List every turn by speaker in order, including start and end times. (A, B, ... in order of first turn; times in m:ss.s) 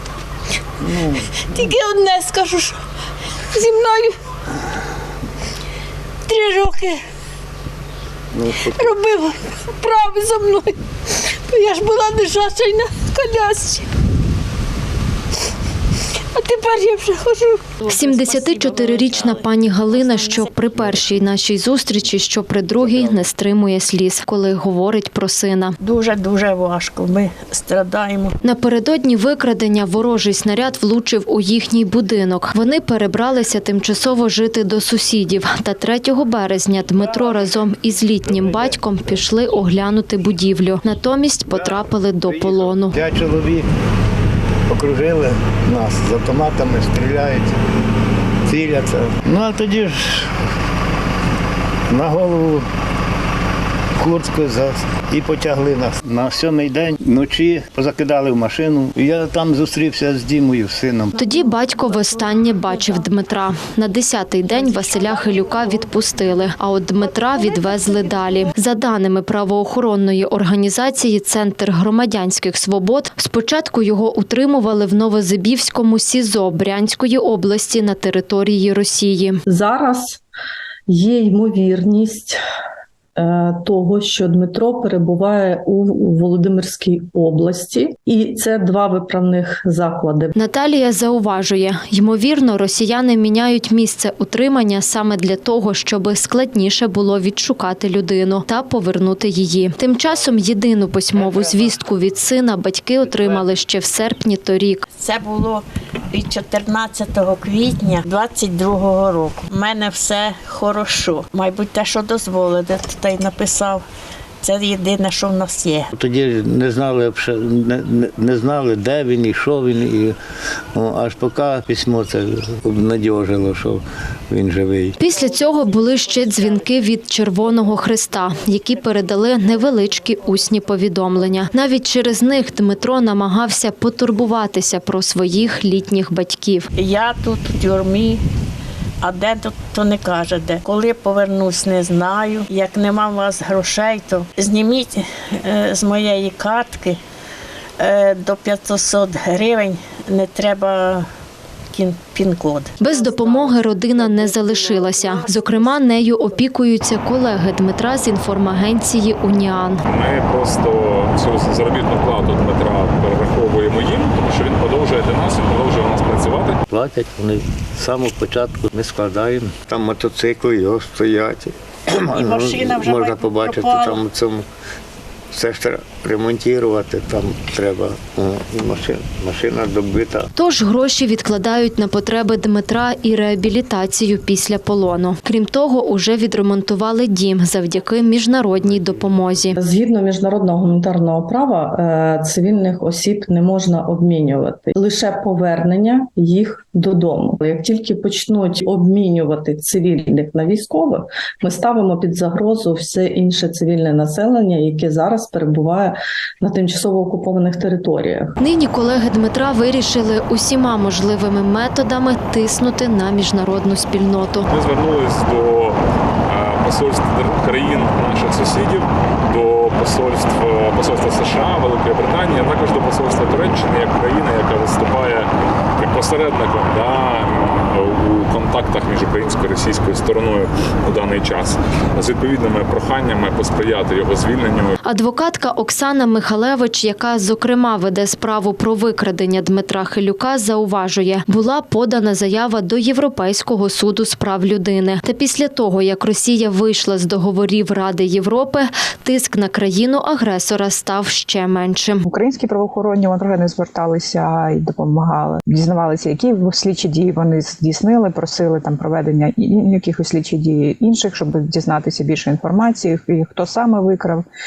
0:00.9-0:01.7 A
0:01.3-0:02.8 B
0:03.5-0:04.2 B
0:06.3-0:07.0 B
0:08.4-0:08.9 A
0:08.5-0:13.9 B
0:16.3-0:20.9 B
0:17.8-0:25.8 C
0:25.8-0:28.4 B
0:28.4-0:43.0 C
0:37.0-0:37.5 A
0:38.2-0:39.2 A
0:41.5-0:43.7 A
0:44.7-0:47.6 A
0:48.5-0:50.3 A
0:51.9-0:52.7 A
0:54.0-1:01.1 A
1:01.2-1:19.4 C
1:01.2-1:02.2 B
1:04.6-1:05.4 B
1:07.5-1:08.4 B
1:19.5-1:20.2 D
1:20.9-1:22.4 D
1:23.2-1:30.4 D
1:30.4-1:44.8 C
1:45.0-1:53.8 B
1:54.4-1:55.9 B
1:55.9-2:00.2 A
2:00.7-2:05.0 A
2:05.0-2:16.7 C
2:16.8-2:18.2 B
2:19.0-2:27.0 B
2:27.8-2:31.1 B
2:31.7-2:35.7 B
2:32.8-2:39.8 C
2:39.9-2:46.6 E
2:46.7-2:54.5 A
2:52.1-2:54.0 B
2:55.3-3:00.3 A
3:00.4-3:09.6 C
3:09.6-3:28.4 D
3:28.4-3:34.5 C
3:34.5-3:54.8 E
3:54.9-4:12.0 C
4:12.1-4:24.3 F